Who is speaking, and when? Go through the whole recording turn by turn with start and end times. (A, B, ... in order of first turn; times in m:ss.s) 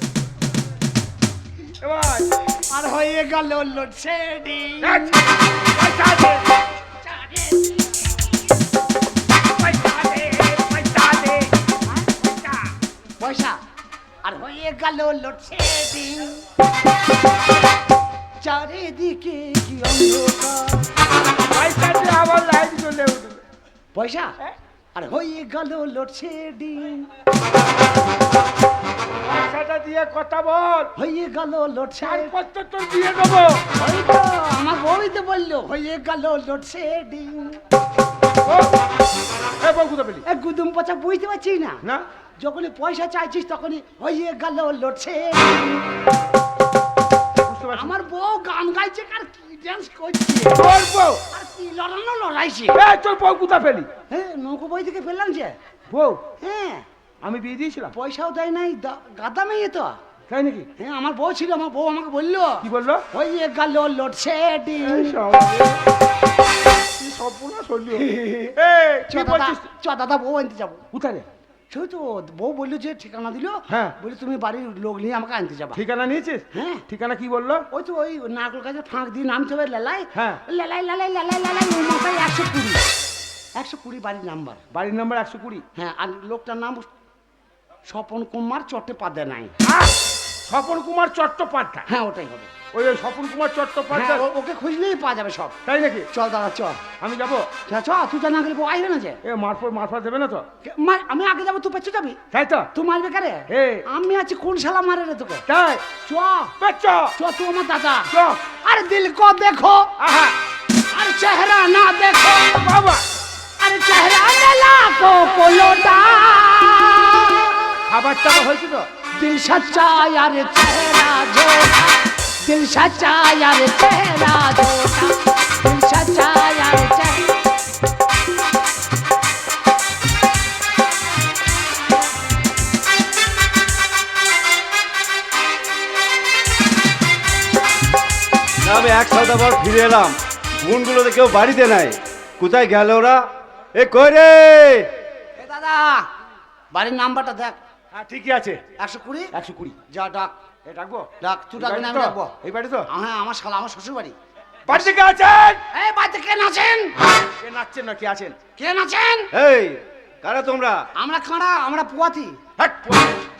0:01.8-0:02.4 A
0:02.7-0:05.2 B
0:04.8-0:06.4 A
0:07.0-0:08.3 B
0:09.6-0:11.5 A
0:11.8-0:12.5 B
0:13.2-0:13.6 B
0:14.2-0:16.5 B
0:18.4-0:20.9 B
0:21.4-0:23.4 A
0:23.9-0:24.3 B
0:24.9-0:27.1 B
0:29.2-0:30.9 A
0:31.0-0:32.3 B
0:32.0-0:33.6 A
0:33.8-0:37.6 B
0:38.4-0:38.8 A
0:39.6-0:40.2 A
0:40.2-0:41.8 B
0:42.4-0:45.9 B
0:47.4-0:47.9 A
0:47.7-0:50.7 B
0:50.5-0:51.2 A
0:51.3-0:52.8 B
0:52.7-0:53.9 A
0:54.1-0:55.6 B
0:55.9-0:56.2 A
0:56.4-0:56.9 B
0:57.2-0:57.9 A
0:57.9-1:00.0 B
1:00.3-1:00.7 A
1:00.8-1:05.2 B
1:02.6-1:03.0 A
1:04.8-1:05.8 A
1:07.0-1:09.6 A
1:07.9-1:08.5 B
1:09.1-1:10.8 B
1:10.9-1:11.3 A
1:11.7-1:15.8 B
1:13.7-1:14.0 A
1:15.7-1:17.6 A
1:16.5-1:16.8 B
1:17.7-1:22.8 B
1:20.1-1:20.4 A
1:23.5-1:24.6 B
1:24.7-1:25.6 A
1:25.7-1:26.9 B
1:27.9-1:29.5 B
1:29.6-1:29.9 A
1:30.5-1:31.9 A
1:31.9-1:32.5 B
1:32.7-1:34.2 A
1:33.9-1:35.6 B
1:35.6-1:36.1 A
1:36.1-1:36.8 B
1:37.0-1:37.5 A
1:37.7-1:39.2 B
1:39.2-1:40.4 A
1:40.6-1:42.2 B
1:42.3-1:42.7 A
1:42.7-1:45.4 B
1:43.5-1:43.8 A
1:45.5-1:45.9 A
1:46.0-1:46.5 B
1:46.6-1:47.2 A
1:47.2-1:49.9 B
1:48.1-1:48.4 A
1:50.0-1:50.4 A
1:50.9-1:52.7 B
1:52.5-1:53.0 A
1:53.6-1:57.6 B
1:57.8-1:58.9 A
1:59.2-2:07.3 B
2:18.6-2:24.9 C
2:25.4-2:26.1 B
2:26.7-2:27.6 B
2:27.9-2:28.6 A
2:28.8-2:29.3 B
2:29.3-2:29.8 A
2:29.9-2:30.3 B
2:30.6-2:32.9 A
2:31.2-2:32.3 B
2:32.9-2:34.2 B
2:34.6-2:35.6 A
2:35.7-2:36.9 B
2:37.4-2:38.4 A
2:38.6-2:39.3 B
2:39.3-2:40.9 C
2:41.0-2:42.4 B
2:42.6-2:43.2 A